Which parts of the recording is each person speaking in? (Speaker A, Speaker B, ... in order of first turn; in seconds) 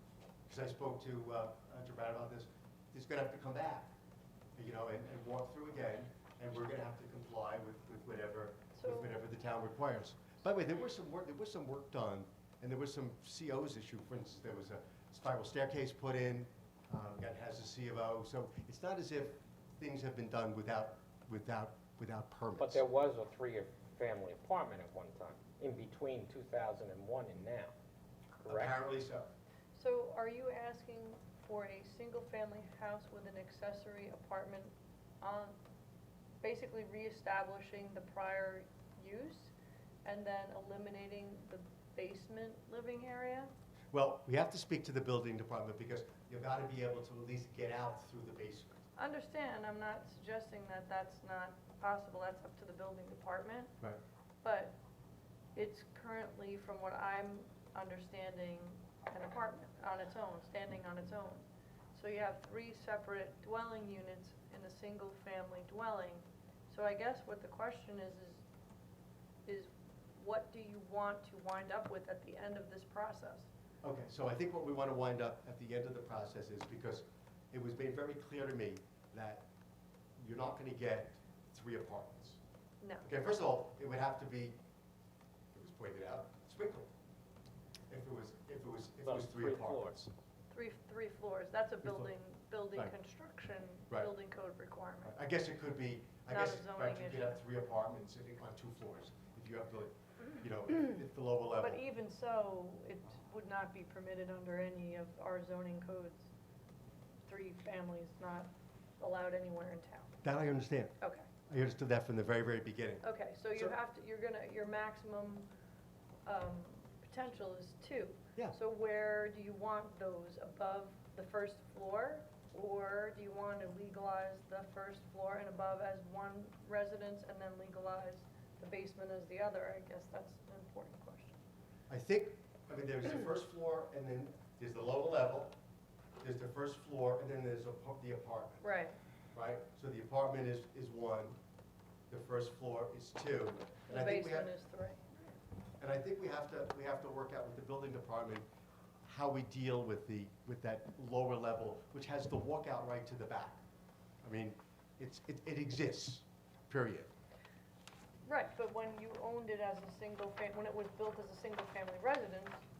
Speaker A: 0.5-3.9, 4.5-22.8, 28.5-29.3, 43.9-48.9, 73.8-79.5, 80.2-82.4, 83.0-84.6, 85.5-86.9, 87.9-90.1, 91.8-92.1, 95.0-101.8, 110.2-111.0, 111.5-113.7, 131.9-135.6, 136.2-138.7, 139.3-141.4, 142.1-144.5, 145.8-148.4, 149.0-153.6, 154.2-157.1
Speaker B: 8.7-9.2, 29.7-35.6, 36.4-39.5, 40.0-43.5, 49.0-53.7, 54.4-54.8, 55.5-68.4, 69.5-73.5, 82.8-83.0, 90.5-95.1, 96.3-97.4, 101.6-106.3, 107.2-110.2, 111.0-111.3, 113.0-115.5, 116.2-131.4, 138.6-139.0, 143.9-145.2, 158.2-162.6
Speaker C: 22.6-27.7, 28.4-28.8, 89.0-90.0